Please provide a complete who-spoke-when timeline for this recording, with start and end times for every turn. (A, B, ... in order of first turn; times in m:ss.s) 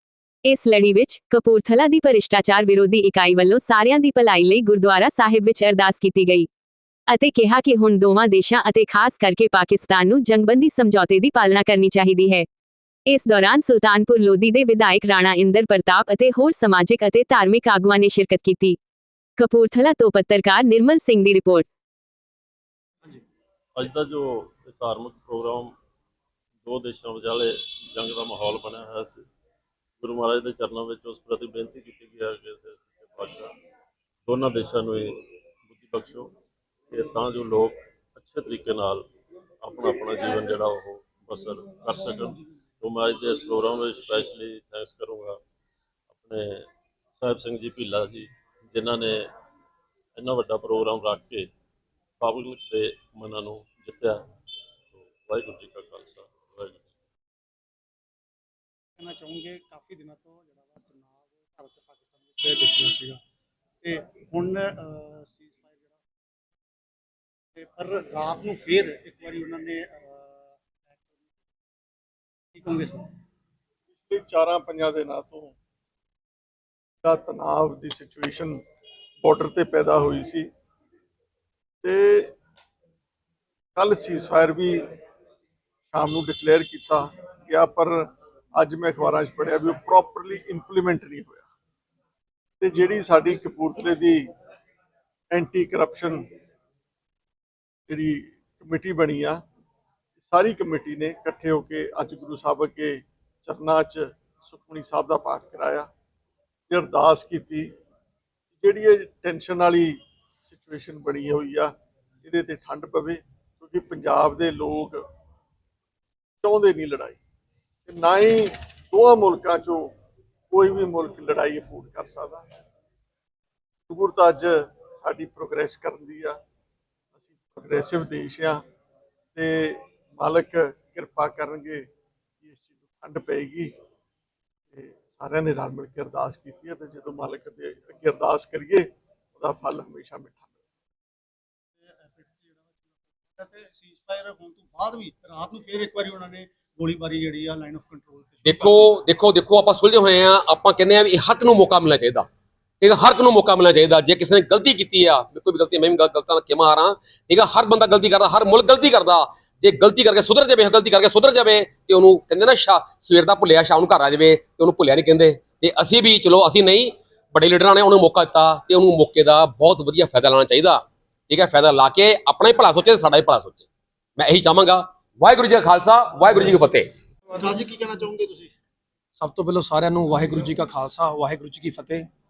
0:00.4-0:06.5 A
0:07.1-0:12.4 A
0:13.1-0:18.8 A
0:19.4-0:21.7 A
0:23.8-0:25.7 B
0:26.6-0:29.2 B
0:30.0-0:33.5 B
0:34.3-0:35.1 B
0:35.7-0:36.2 B
0:36.9-0:39.0 B
0:39.6-0:45.4 B
0:46.2-0:46.5 B
0:47.2-0:49.1 B
0:50.2-0:51.5 B
0:52.2-0:54.1 B
0:55.0-0:56.9 B
0:59.0-1:03.2 C
1:03.8-1:06.0 C
1:07.6-1:10.3 C
1:12.5-1:13.1 C
1:14.0-1:15.5 D
1:17.0-1:18.6 D
1:19.2-1:20.5 D
1:21.8-1:22.3 D
1:23.8-1:24.8 D
1:25.9-1:31.5 D
1:32.6-1:34.3 D
1:35.3-1:36.2 D
1:37.9-1:39.4 D
1:40.2-1:45.9 D
1:46.7-1:47.7 D
1:48.6-1:51.7 D
1:52.2-1:55.0 D
1:56.4-1:57.2 D
1:57.8-1:59.9 D
2:00.5-2:02.4 D
2:03.9-2:06.4 D
2:07.4-2:08.6 D
2:09.3-2:11.8 D
2:12.4-2:13.7 D
2:14.7-2:20.5 D
2:21.8-2:28.8 C
2:28.4-2:32.3 E
2:32.8-2:56.9 E
2:57.3-2:58.5 C
2:59.2-3:02.1 F